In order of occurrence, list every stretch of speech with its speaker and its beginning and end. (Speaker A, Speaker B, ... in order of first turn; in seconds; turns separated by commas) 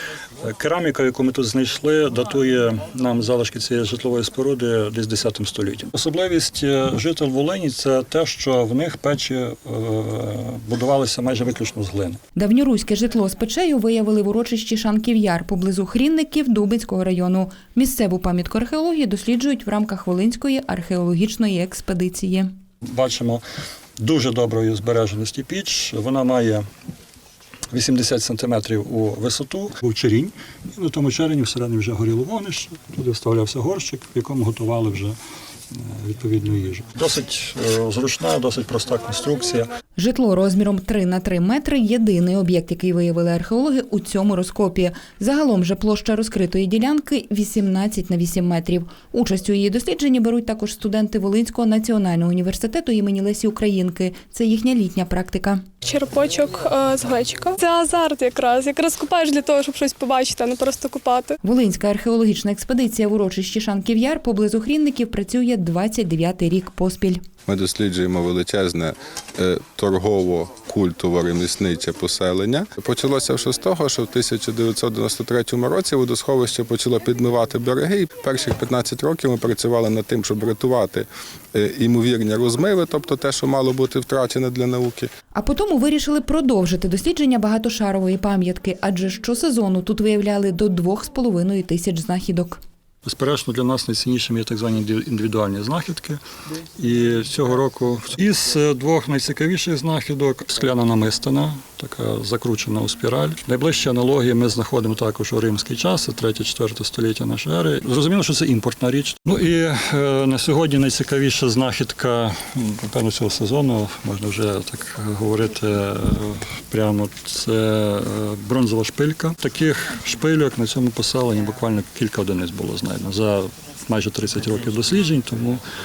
Speaker A: 0.4-12.2, Speaker B: 12.4-22.5, Speaker A: 22.8-23.4, Speaker A: 24.0-26.7, Speaker A: 27.7-35.2, Speaker A: 35.7-39.7, Speaker B: 40.0-55.7, Speaker C: 55.8-61.4, Speaker B: 61.4-67.2, Speaker D: 67.5-85.1, Speaker B: 85.3-92.6, Speaker A: 93.0-96.2, Speaker A: 96.8-125.6